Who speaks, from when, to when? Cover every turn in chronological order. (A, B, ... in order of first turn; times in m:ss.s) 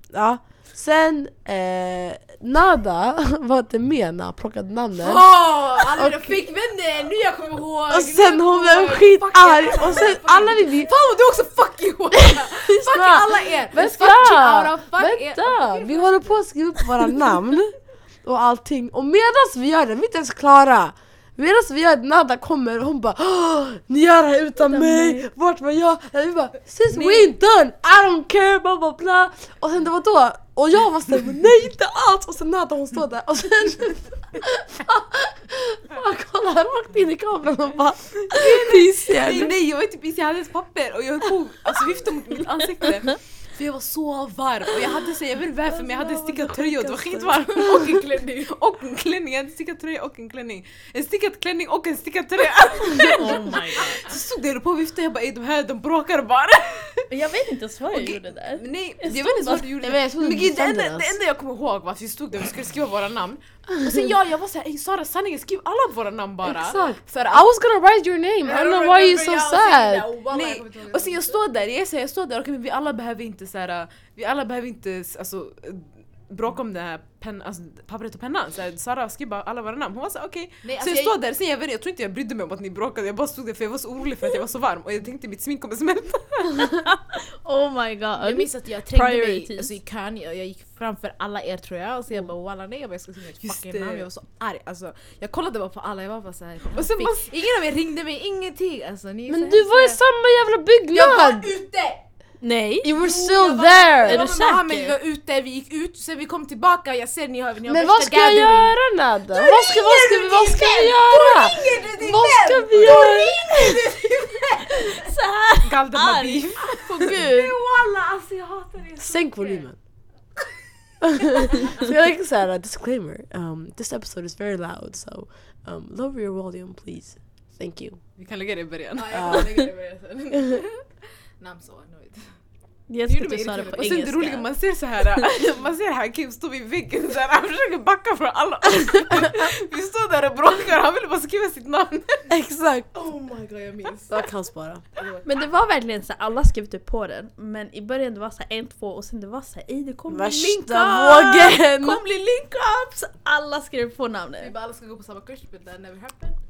0:00.1-0:06.4 A
0:05.0-0:16.4 B
0:07.9-0:10.9 A
0:12.2-0:39.5 A
0:24.6-0:25.3 C
0:38.3-0:57.1 D
0:45.9-0:47.4 C
0:53.0-0:54.1 C
0:57.1-0:59.7 C
0:57.9-1:07.4 D
0:59.8-1:01.2 A
1:06.4-1:10.1 A
1:06.6-1:07.0 B
1:08.4-1:11.4 B
1:10.3-1:26.7 D
1:20.6-1:21.2 B
1:26.8-1:29.7 C
1:28.2-1:40.0 B
1:33.4-1:34.1 D
1:36.7-1:37.3 D
1:39.3-1:41.5 A
1:40.9-1:42.0 B
1:42.4-1:42.9 C
1:42.8-1:44.2 A
1:42.9-1:48.8 B
1:44.0-1:44.9 C
1:47.7-1:53.8 A
1:49.3-1:55.1 B
1:55.0-1:57.5 C
1:55.6-1:57.1 D
1:57.0-1:59.7 B
1:59.0-1:59.8 A
2:01.1-2:08.0 A
2:01.3-2:01.8 B
2:08.2-2:09.4 D
2:08.9-2:10.7 B
2:09.1-2:09.6 A
2:11.4-2:12.3 B
2:12.9-2:14.5 C
2:13.1-2:14.0 B
2:13.6-2:22.3 D
2:22.3-2:22.9 A
2:22.9-2:24.2 B
2:24.1-2:24.8 A
2:25.0-2:25.5 B
2:25.2-2:34.5 C
2:30.1-2:32.0 A
2:34.4-2:36.4 B